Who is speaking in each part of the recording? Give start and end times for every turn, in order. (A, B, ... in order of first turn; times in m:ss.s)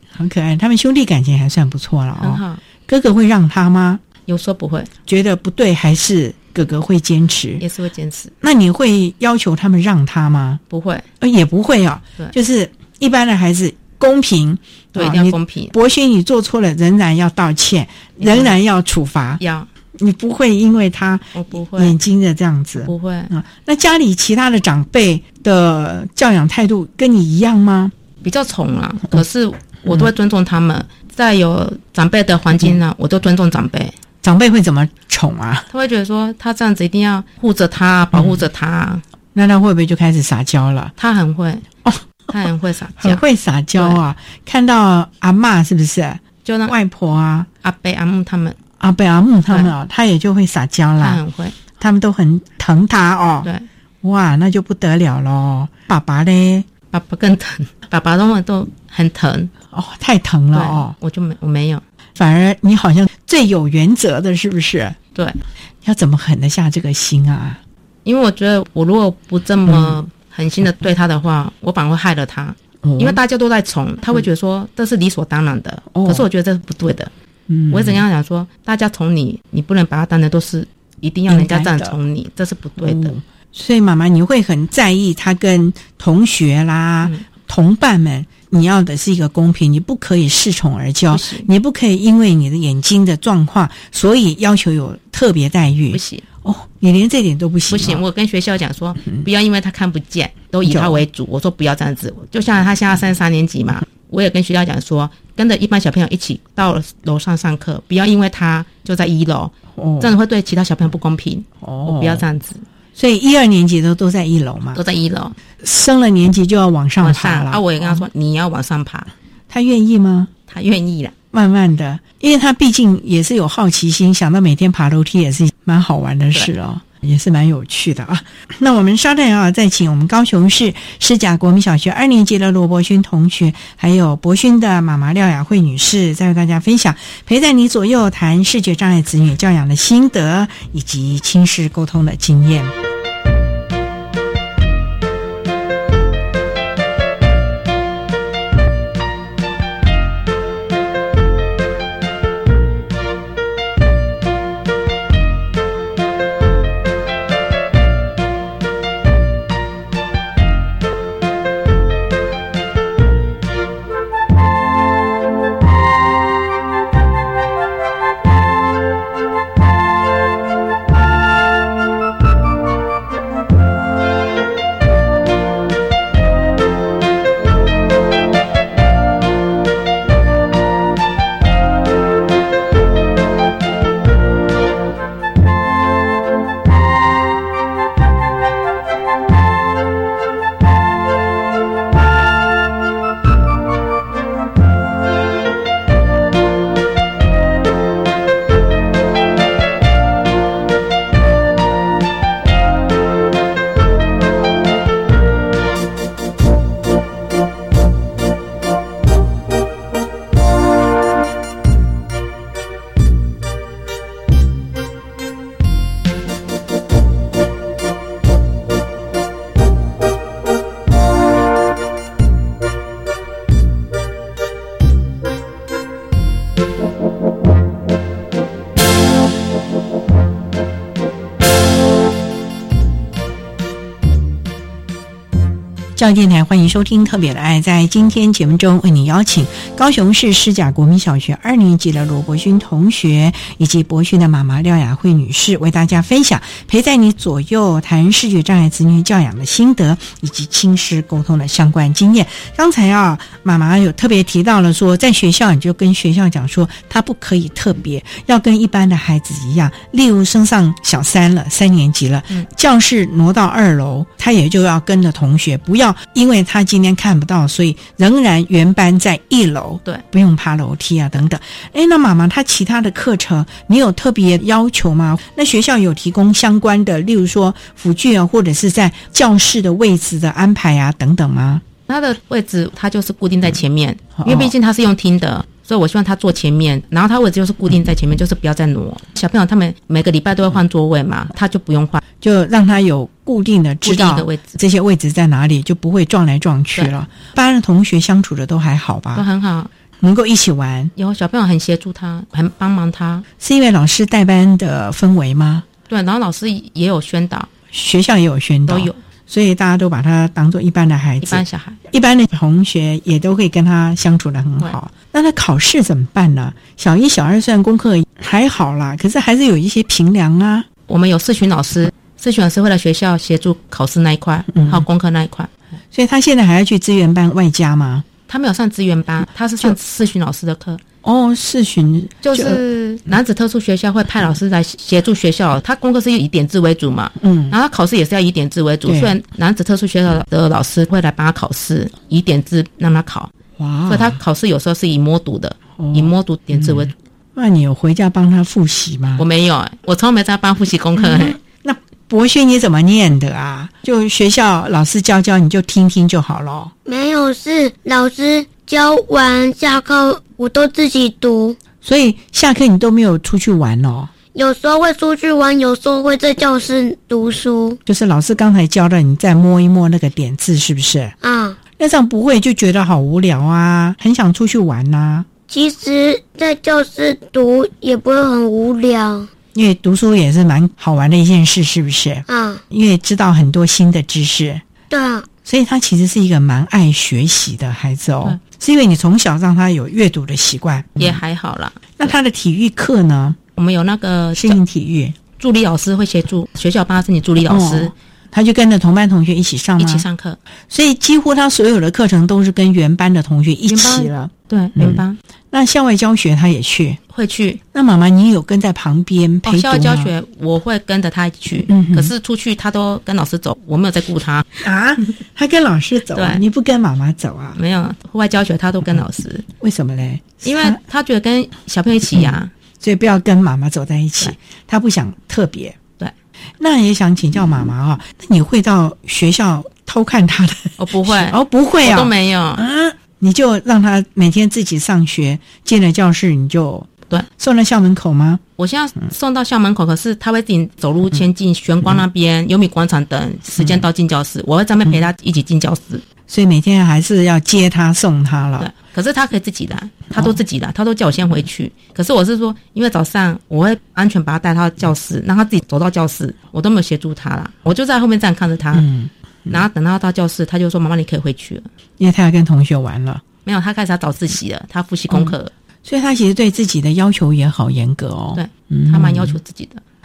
0:00.1-0:04.0 A
0:02.2-0:02.6 B
0:04.3-0:04.9 B
0:05.1-0:07.6 A
0:07.6-0:08.3 B
0:08.4-0:10.6 A
0:10.7-0:11.1 B
0:11.2-0:19.4 A
0:14.9-0:15.7 B
0:18.2-0:18.5 B
0:19.4-0:19.7 B
0:19.9-0:27.9 A
0:21.3-0:21.9 B
0:22.8-0:23.3 B
0:28.2-0:33.9 B
0:34.2-0:35.7 A
0:35.7-0:39.0 B
0:38.1-0:38.4 A
0:39.3-0:40.9 A
0:41.0-0:41.6 B
0:42.3-0:43.2 B
0:43.0-0:47.5 A
0:43.8-0:44.0 B
0:46.4-0:46.7 B
0:47.6-0:48.6 B
0:48.8-0:51.2 A
0:51.0-0:51.6 B
0:51.7-0:53.5 A
0:54.0-0:56.7 A
0:56.9-0:59.5 B
0:59.7-1:00.9 A
1:00.5-1:01.8 B
1:02.2-1:05.0 A
1:05.1-1:05.4 B
1:05.8-1:07.6 A
1:08.0-1:17.1 B
1:09.6-1:10.0 A
1:12.8-1:13.2 A
1:15.9-1:16.3 A
1:17.5-1:18.0 A
1:17.7-1:23.1 B
1:21.3-1:22.0 A
1:22.8-1:38.0 A
1:31.1-1:31.5 B
1:35.9-1:36.2 B
1:37.7-1:52.6 B
1:40.6-1:41.0 A
1:49.7-1:50.2 A
1:51.6-1:52.2 A
1:53.0-1:54.8 A
1:54.7-1:55.4 B
1:55.6-1:58.1 A
1:57.0-1:59.1 B
1:59.5-2:00.3 A
2:00.5-2:01.1 B
2:01.3-2:22.7 A
3:56.0-4:41.6 A
4:41.9-4:52.0 B
4:44.2-4:44.5 A
4:52.2-4:59.2 A
4:53.8-4:54.6 B
4:59.1-4:59.7 B
5:00.0-5:00.9 A
5:01.0-5:03.2 B
5:03.4-5:05.6 A
5:05.9-5:07.5 B
5:07.7-5:20.6 A
5:08.7-5:09.0 B
5:11.2-5:11.8 B
5:20.9-5:25.5 B
5:24.5-5:24.9 A
5:25.9-5:28.0 A
5:28.3-5:30.8 B
5:31.0-5:32.6 A
5:32.2-5:43.3 B
5:37.2-5:37.6 A
5:38.8-5:39.1 A
5:43.6-5:44.2 A
5:43.9-5:46.9 B
5:45.8-5:49.2 A
5:49.2-5:51.4 B
5:51.0-5:56.7 A
5:56.9-6:01.6 C
6:01.8-6:04.1 A
6:04.3-6:07.8 C
6:07.9-6:11.1 A
6:11.2-6:11.6 C
6:11.8-6:15.3 A
6:15.5-6:19.3 C
6:19.5-6:24.6 A
6:22.3-6:22.6 C
6:24.9-6:25.3 C
6:25.4-6:31.2 A
6:31.0-6:32.1 B
6:32.0-6:33.4 A
6:33.6-6:34.6 B
6:34.3-6:35.2 A
6:35.4-6:37.9 B
6:37.4-6:40.0 A
6:39.8-6:40.4 B
6:40.7-6:47.0 A
6:43.7-6:45.2 B
6:47.1-6:47.6 B
6:47.7-6:50.1 A
6:49.4-6:54.5 B
6:51.7-6:52.1 A
6:54.6-6:57.6 A
6:56.1-6:56.4 B
6:57.6-6:59.4 B
6:59.6-7:00.8 A
7:00.4-7:02.5 B
7:02.1-7:05.8 A
7:06.6-7:18.4 A
7:10.8-7:12.6 B
7:18.6-7:26.0 B
7:23.6-7:23.9 A
7:26.3-7:28.7 A
7:28.6-7:38.9 B
7:38.7-7:39.6 A
7:39.5-7:41.7 B
7:42.0-7:43.2 A
7:43.4-7:45.5 B
7:45.1-7:49.4 A
7:48.3-7:49.8 B